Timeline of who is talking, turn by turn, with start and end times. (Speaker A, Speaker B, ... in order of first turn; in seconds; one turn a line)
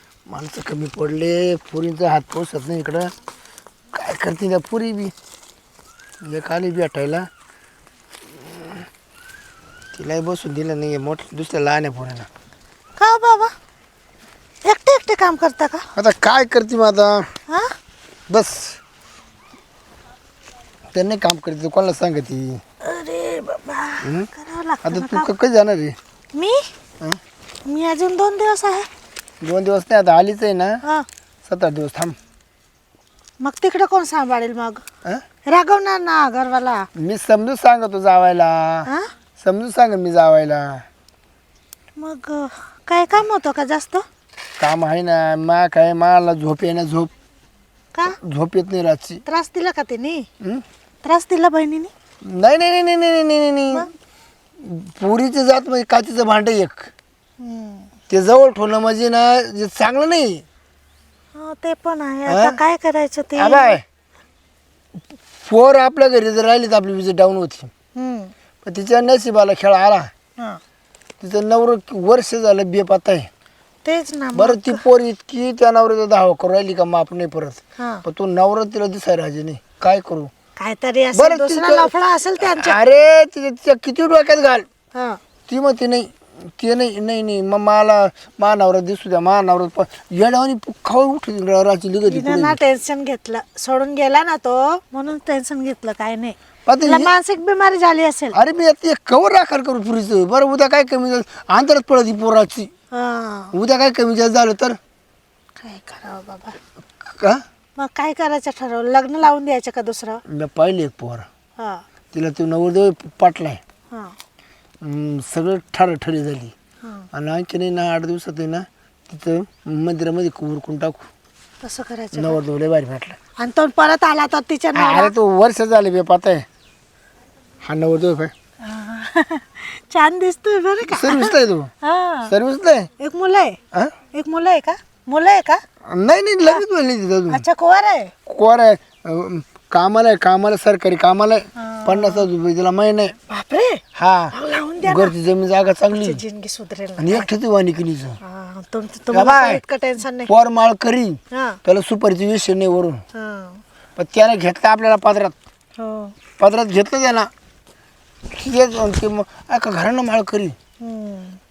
Speaker A: 0.3-3.1
Speaker A: 3.9-5.1
Speaker A: 6.2-7.3
Speaker A: 9.9-12.3
Speaker B: 13.0-13.5
Speaker B: 14.6-15.8
Speaker A: 15.9-17.3
Speaker A: 18.3-18.8
Speaker A: 20.9-22.6
Speaker B: 22.8-25.3
Speaker A: 24.0-24.3
Speaker A: 24.8-25.9
Speaker B: 26.3-26.6
Speaker B: 27.7-28.9
Speaker A: 29.4-30.8
Speaker A: 31.5-32.1
Speaker B: 33.4-34.8
Speaker B: 35.4-36.9
Speaker A: 36.9-38.9
Speaker A: 39.4-40.8
Speaker B: 42.0-44.0
Speaker A: 44.6-47.1
Speaker A: 48.0-49.2
Speaker B: 49.2-50.3
Speaker B: 51.0-51.9
Speaker A: 52.2-53.9
Speaker A: 54.6-56.9
Speaker B: 57.4-57.9
Speaker A: 58.1-60.4
Speaker B: 61.3-63.8
Speaker A: 62.3-62.6
Speaker A: 63.4-63.8
Speaker A: 65.4-67.7
Speaker B: 68.0-68.3
Speaker A: 68.6-70.1
Speaker A: 71.2-73.3
Speaker B: 73.8-74.8
Speaker A: 74.3-80.3
Speaker B: 77.8-78.0
Speaker B: 80.6-82.8
Speaker A: 81.1-84.7
Speaker A: 85.5-92.6
Speaker B: 92.1-98.4
Speaker A: 96.7-97.1
Speaker A: 98.3-102.7
Speaker B: 102.9-103.5
Speaker A: 103.5-104.8
Speaker B: 105.6-106.5
Speaker A: 107.0-107.4
Speaker B: 107.8-110.2
Speaker A: 110.3-111.3
Speaker A: 112.1-113.6
Speaker A: 114.8-116.5
Speaker A: 117.1-121.0
Speaker B: 121.6-122.4
Speaker A: 122.1-123.2
Speaker B: 123.4-125.1
Speaker A: 124.7-126.5
Speaker A: 127.6-128.3
Speaker B: 128.7-132.3
Speaker A: 130.9-131.7
Speaker A: 132.3-132.9
Speaker B: 133.0-133.6
Speaker B: 134.1-135.6
Speaker A: 135.9-137.4
Speaker B: 137.3-138.1
Speaker A: 138.3-143.1
Speaker B: 141.6-142.3
Speaker B: 143.3-143.8
Speaker A: 143.9-146.2
Speaker B: 144.3-145.1
Speaker B: 145.9-147.3
Speaker A: 147.0-148.2
Speaker B: 148.2-150.3
Speaker A: 149.1-149.6
Speaker A: 150.3-153.0
Speaker B: 151.3-151.6
Speaker B: 153.1-153.6
Speaker A: 154.0-155.3
Speaker B: 155.8-156.1
Speaker A: 156.4-157.3
Speaker A: 158.3-160.5
Speaker B: 160.8-161.4